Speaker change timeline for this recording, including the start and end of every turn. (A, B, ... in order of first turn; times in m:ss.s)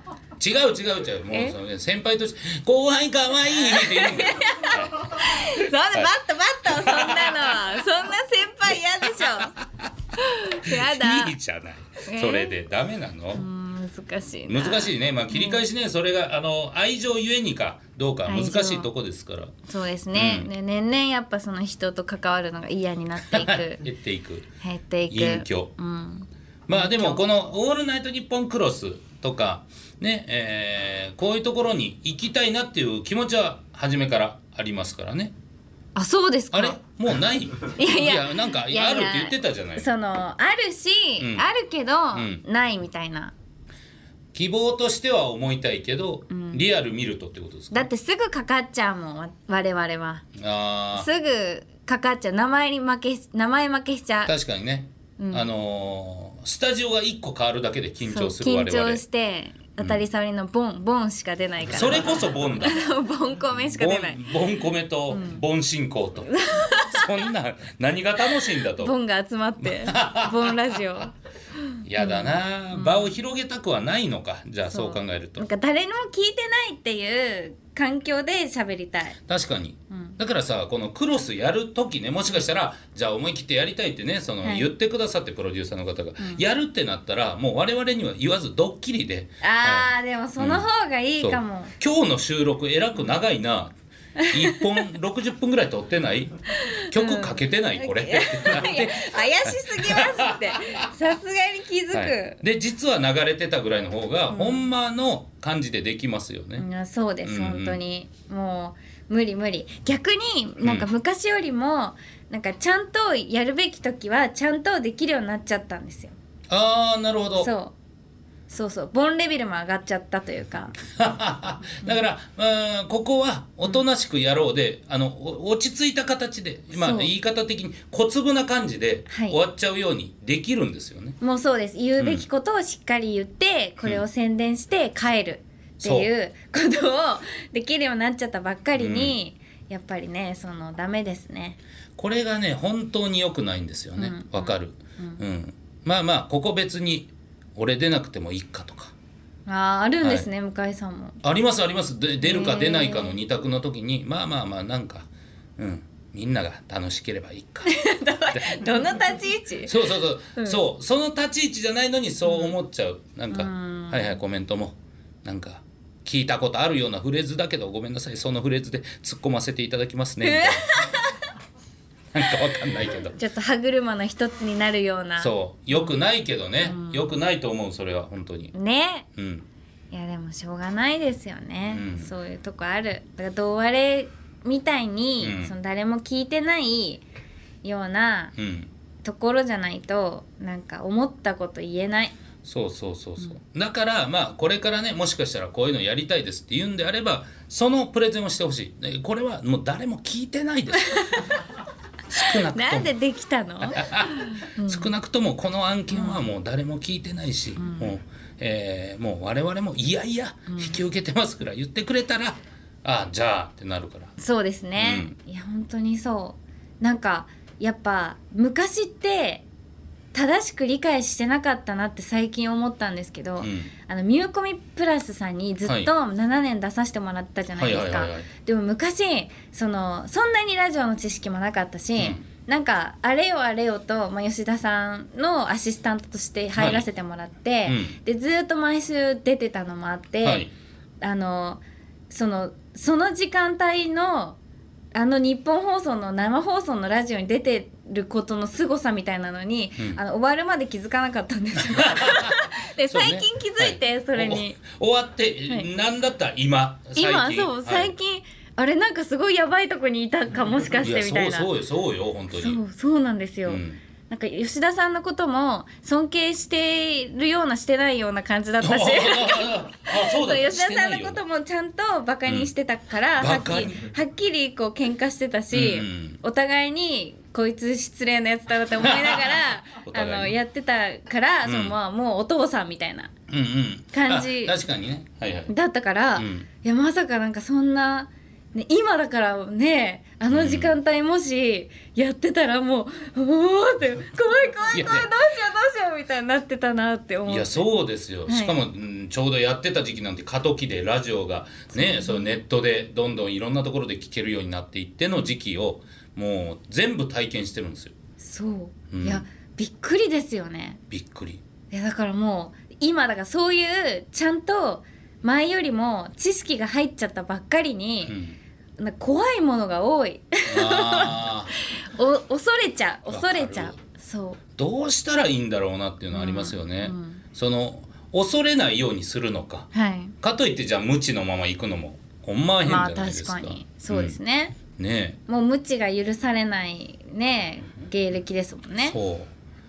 0:00.4-0:07.6 A
0:03.6-0:09.5 B
0:09.0-0:09.9 A
0:10.2-0:11.4 B
0:10.6-0:13.4 A
0:12.1-0:12.5 B
0:13.3-0:15.6 B
0:14.5-0:19.6 A
0:18.3-0:18.9 B
0:19.7-0:23.8 B
0:20.1-0:20.5 A
0:23.2-0:24.5 A
0:24.6-0:27.2 B
0:25.1-0:25.7 A
0:26.7-0:35.3 A
0:35.9-0:36.8 B
0:36.5-0:39.9 A
0:37.7-0:43.3 B
0:41.2-0:41.5 A
0:42.1-0:42.4 A
0:44.3-0:47.9 A
0:46.3-0:46.6 B
0:47.7-0:50.2 B
0:50.3-0:51.1 A
0:50.9-0:54.3 B
0:54.2-0:59.0 A
0:55.2-0:55.5 B
0:58.0-1:02.1 B
1:01.7-1:02.8 A
1:02.6-1:04.2 B
1:03.7-1:08.9 A
1:05.1-1:05.4 B
1:06.3-1:07.2 B
1:08.7-1:13.1 B
1:09.6-1:10.8 A
1:11.8-1:15.5 A
1:14.7-1:19.2 B
1:19.3-1:33.8 A
1:19.9-1:20.2 B
1:24.4-1:24.7 B
1:29.4-1:31.7 B
1:34.2-1:34.8 B
1:34.3-1:40.8 A
1:36.6-1:42.4 B
1:41.9-1:46.7 A
1:44.3-1:44.7 B
1:46.6-1:56.1 B
1:47.2-1:47.8 A
1:56.5-1:57.5 A
1:57.4-1:57.7 B
1:58.5-2:00.7 B
2:00.9-2:11.2 A
2:06.7-2:07.1 B
2:09.1-2:09.4 B
2:11.2-2:21.6 B
2:12.0-2:12.2 A
2:15.8-2:16.1 A
2:18.8-2:19.2 A
2:22.0-2:28.9 A
2:24.0-2:25.2 B
2:29.4-2:31.2 B
2:30.0-2:30.3 A
2:31.2-2:37.7 A
2:32.2-2:33.2 B
2:37.6-2:39.7 B
2:38.3-2:38.6 A
2:39.6-2:50.7 A
2:40.4-2:40.6 B
2:42.3-2:42.5 B
2:43.3-2:44.2 B
2:50.2-2:51.2 B
2:52.1-2:53.2 A
2:53.1-2:55.9 B
2:55.2-2:58.5 A
2:56.6-2:57.1 B
2:58.5-2:59.1 B
2:59.2-2:59.4 A
2:59.9-3:07.0 B
3:01.7-3:02.1 A
3:05.2-3:05.5 A
3:07.6-3:08.3 B
3:08.4-3:08.7 A
3:09.0-3:12.1 B
3:12.4-3:21.2 A
3:20.8-3:21.3 B
3:22.1-3:22.9 A
3:22.3-3:24.9 B
3:23.7-3:34.1 A
3:25.9-3:26.2 B
3:27.6-3:27.9 B
3:30.5-3:30.8 B
3:34.2-3:39.4 B
3:34.8-3:35.2 A
3:40.1-4:00.5 B
3:43.4-3:43.7 A
3:45.6-3:45.9 A
3:47.5-3:48.3 A
3:52.0-3:52.2 A
3:56.6-3:56.8 A
3:57.6-3:58.0 A
4:00.2-4:00.5 A
4:01.0-4:04.4 B
4:04.9-4:14.6 B
4:11.7-4:17.9 A
4:17.0-4:21.5 B
4:20.8-4:22.6 A
4:22.3-4:43.1 B
4:23.4-4:23.8 A
4:28.6-4:31.2 A
4:32.2-4:32.5 A
4:33.2-4:33.8 A
4:35.5-4:36.2 A
4:38.8-4:40.4 A
4:41.4-4:41.8 A
4:43.3-4:45.5 A
4:43.9-4:44.5 B
4:45.5-4:57.6 B
4:46.2-4:46.5 A
4:50.3-4:50.7 A
4:54.7-4:55.1 A
4:57.3-5:07.9 A
4:58.3-4:58.6 B
5:01.7-5:02.4 B
5:08.2-5:10.8 B
5:08.9-5:09.2 A
5:10.9-5:11.4 A
5:11.7-5:18.2 B
5:18.1-5:18.4 A
5:18.8-5:24.4 B
5:20.4-5:21.5 A
5:23.1-5:23.8 A
5:24.6-5:29.7 A
5:26.1-5:27.2 B
5:29.7-5:30.1 B
5:30.2-5:35.2 A
5:32.6-5:34.6 B
5:35.3-5:39.0 B
5:38.8-5:39.3 A